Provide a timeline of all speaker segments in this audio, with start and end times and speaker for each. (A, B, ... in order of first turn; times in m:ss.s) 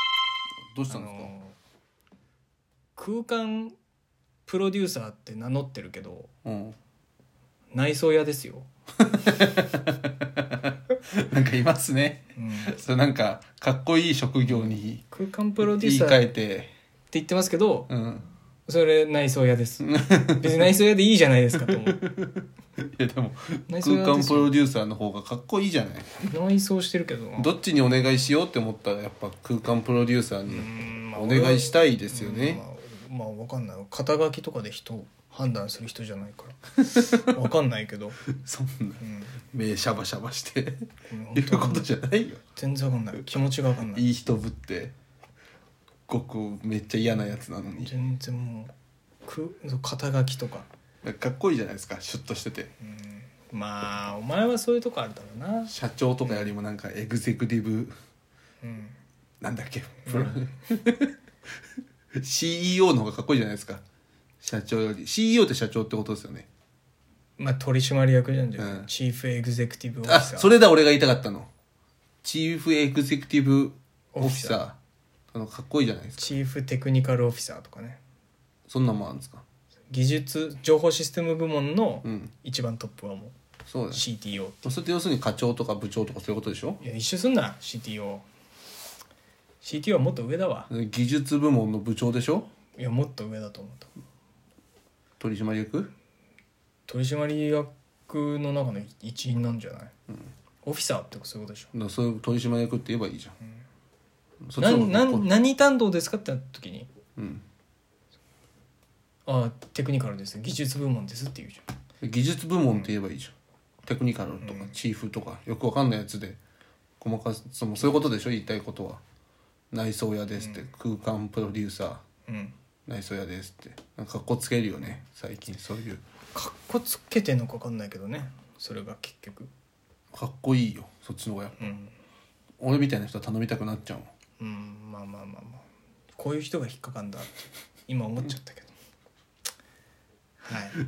0:00.7-0:01.3 A
0:00.9-0:01.6 B
0:03.0-0:03.7 B
0:04.4-0:06.3 B
0:06.4-0:06.7 A
0:07.7-0:08.7 B
0:09.0-0:15.0 A
0:12.4-0:12.7 B
0:14.4-0:16.2 B
0:15.6-0:16.7 A
0:17.1-0:17.9 B
0:17.9-0:18.2 A
0:18.7-0:22.0 B
0:19.9-0:20.6 A
0:21.6-0:26.1 A
0:23.7-0:24.5 B
0:26.3-0:27.5 B
0:27.4-0:32.6 A
0:30.5-0:38.2 B
0:36.9-0:37.2 A
0:38.4-0:39.0 A
0:39.0-0:39.4 B
0:39.5-0:42.4 A
0:41.1-0:41.9 B
0:42.5-0:44.0 B
0:43.9-0:44.9 A
0:46.1-0:47.9 A
0:47.8-0:48.7 B
0:49.2-0:50.7 B
0:51.0-0:52.7 A
0:52.8-0:55.7 B
0:55.7-0:57.9 A
0:56.2-0:56.5 B
0:58.6-0:59.0 B
0:59.4-1:01.1 A
1:00.0-1:00.4 B
1:02.1-1:03.8 A
1:04.4-1:06.5 A
1:07.4-1:10.5 B
1:08.6-1:08.9 A
1:10.0-1:11.5 A
1:12.2-1:14.8 A
1:14.1-1:14.6 B
1:15.3-1:16.3 A
1:16.2-1:18.0 B
1:18.7-1:19.4 A
1:19.9-1:23.3 B
1:22.0-1:22.3 A
1:23.7-1:24.0 A
1:23.9-1:24.7 B
1:24.6-1:26.8 A
1:26.8-1:28.2 B
1:29.6-1:30.7 B
1:30.7-1:32.5 A
1:32.8-1:33.9 B
1:35.2-1:35.9 A
1:36.9-1:39.9 B
1:40.6-1:41.7 B
1:41.7-1:43.3 A
1:44.5-1:45.3 A
1:44.6-1:46.9 B
1:47.2-1:47.4 A
1:49.2-1:51.6 B
1:52.0-1:53.3 A
1:53.8-1:56.4 A
1:54.4-1:54.7 B
1:57.0-1:59.0 A
1:59.7-2:02.0 A
2:00.4-2:00.6 B
2:02.3-2:02.5 B
2:02.9-2:06.0 A
2:06.3-2:09.5 B
2:10.1-2:11.7 A
2:11.6-2:11.9 B
2:12.6-2:14.1 A
2:14.4-2:15.6 B
2:16.2-2:18.7 B
2:20.4-2:20.8 B